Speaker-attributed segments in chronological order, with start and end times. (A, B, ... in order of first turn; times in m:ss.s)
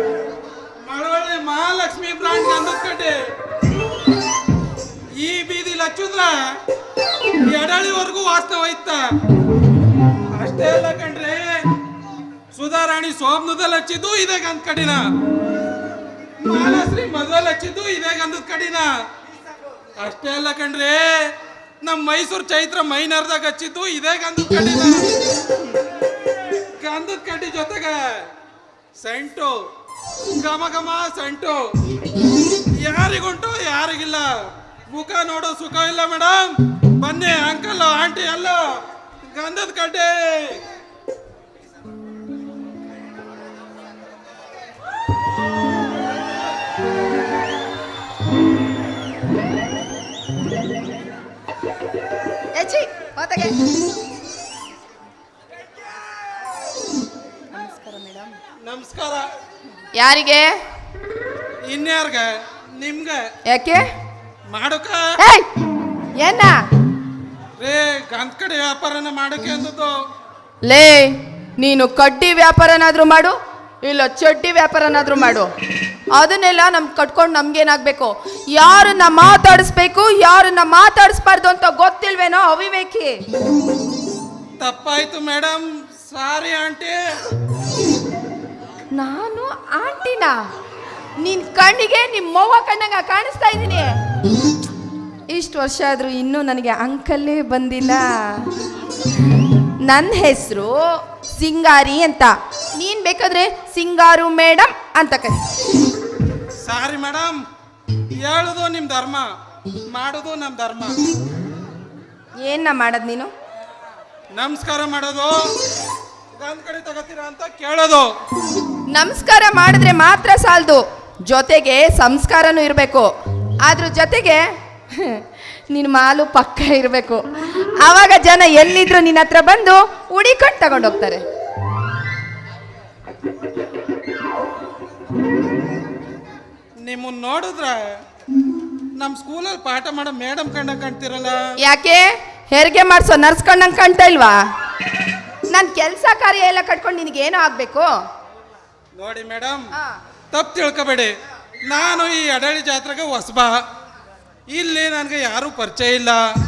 0:00.8-0:03.2 A
0:05.2-0:06.6 A
0:07.3-0:09.1 A
0:10.3-0:11.7 A
0:12.5-0:15.0 A
0:16.4-0:18.9 A
0:20.0-0:25.2 A
0:26.5-0:28.3 A
0:29.0-0:29.6 A
0:30.2-0:31.8 A
0:32.7-0:40.6 A
0:52.6-0:53.8 B
0:57.5-0:58.4 B
0:58.6-0:59.3 A
1:00.0-1:00.6 B
1:01.6-1:03.3 A
1:03.5-1:03.8 B
1:04.5-1:05.2 A
1:05.2-1:05.5 B
1:06.2-1:06.6 B
1:07.6-1:10.0 A
1:10.6-1:15.5 B
1:16.1-1:23.2 B
1:24.6-1:27.2 A
1:29.0-1:30.5 B
1:31.2-1:34.0 B
1:35.3-1:38.5 B
1:39.8-1:45.5 B
1:46.6-1:47.4 A
1:48.2-1:49.3 A
1:49.9-1:51.1 A
1:52.4-1:53.3 B
1:54.3-1:55.5 A
1:56.4-1:58.1 A
1:58.9-2:03.1 B
2:03.6-2:11.2 B
2:16.8-2:17.9 A
2:19.0-2:21.5 A
2:21.6-2:24.4 B
2:25.5-2:27.9 B
2:29.0-2:29.7 A
2:29.8-2:30.0 B
2:30.3-2:33.6 A
2:34.5-2:36.2 A